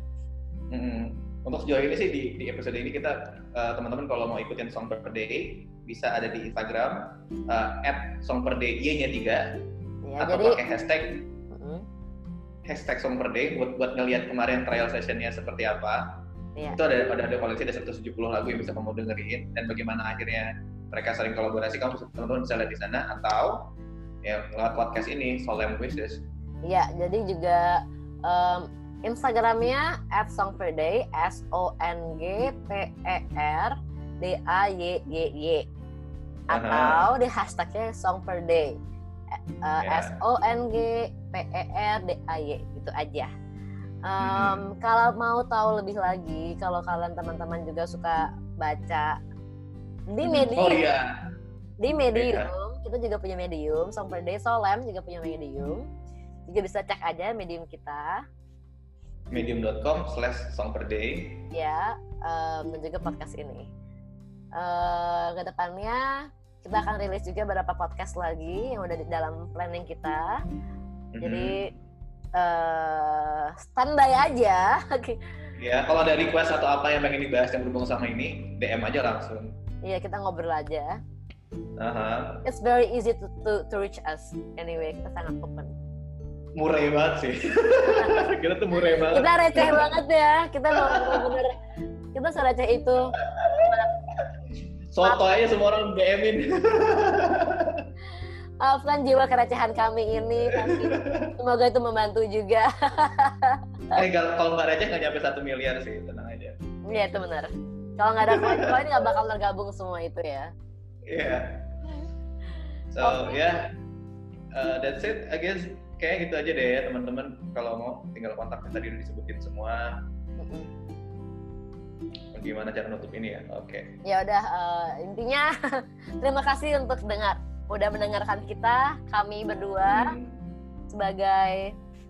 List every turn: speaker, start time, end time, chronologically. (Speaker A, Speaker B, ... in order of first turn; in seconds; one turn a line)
Speaker A: 0.7-9.4
Speaker B: 10.0-10.6
Speaker A: 10.2-11.2
Speaker B: 11.5-11.8
Speaker A: 12.7-16.0
Speaker A: 16.8-23.7
Speaker A: 24.2-26.2
Speaker B: 26.7-35.6
Speaker A: 36.5-37.0
Speaker B: 36.5-38.7
Speaker B: 39.6-43.3
Speaker A: 39.8-40.1
Speaker B: 44.1-49.1
Speaker A: 44.2-44.6
Speaker B: 50.1-50.8
Speaker A: 50.2-51.1
Speaker B: 51.8-55.8
Speaker A: 52.1-52.5
Speaker B: 56.5-58.2
Speaker A: 59.3-61.4
Speaker B: 61.5-63.7
Speaker B: 64.6-66.0
Speaker B: 66.6-70.3
Speaker A: 71.1-71.6
Speaker B: 71.2-71.7
Speaker B: 72.4-75.2
Speaker A: 75.6-79.5
Speaker B: 79.8-81.0
Speaker A: 81.8-82.4
Speaker B: 82.4-85.7
Speaker A: 86.5-90.0
Speaker B: 89.1-91.5
Speaker A: 90.7-91.4
Speaker B: 92.1-93.8
Speaker A: 93.2-94.2
Speaker A: 94.9-97.8
Speaker B: 95.0-95.5
Speaker B: 98.6-103.6
Speaker A: 100.6-101.3
Speaker A: 103.9-106.5
Speaker B: 106.9-110.5
Speaker A: 108.2-108.8
Speaker A: 111.1-111.6
Speaker A: 112.9-113.7
Speaker B: 113.0-113.4
Speaker A: 114.5-119.9
Speaker B: 120.4-120.7
Speaker A: 122.3-123.9
Speaker B: 124.0-125.5
Speaker B: 126.2-130.1
Speaker A: 129.9-130.3
Speaker B: 130.9-131.7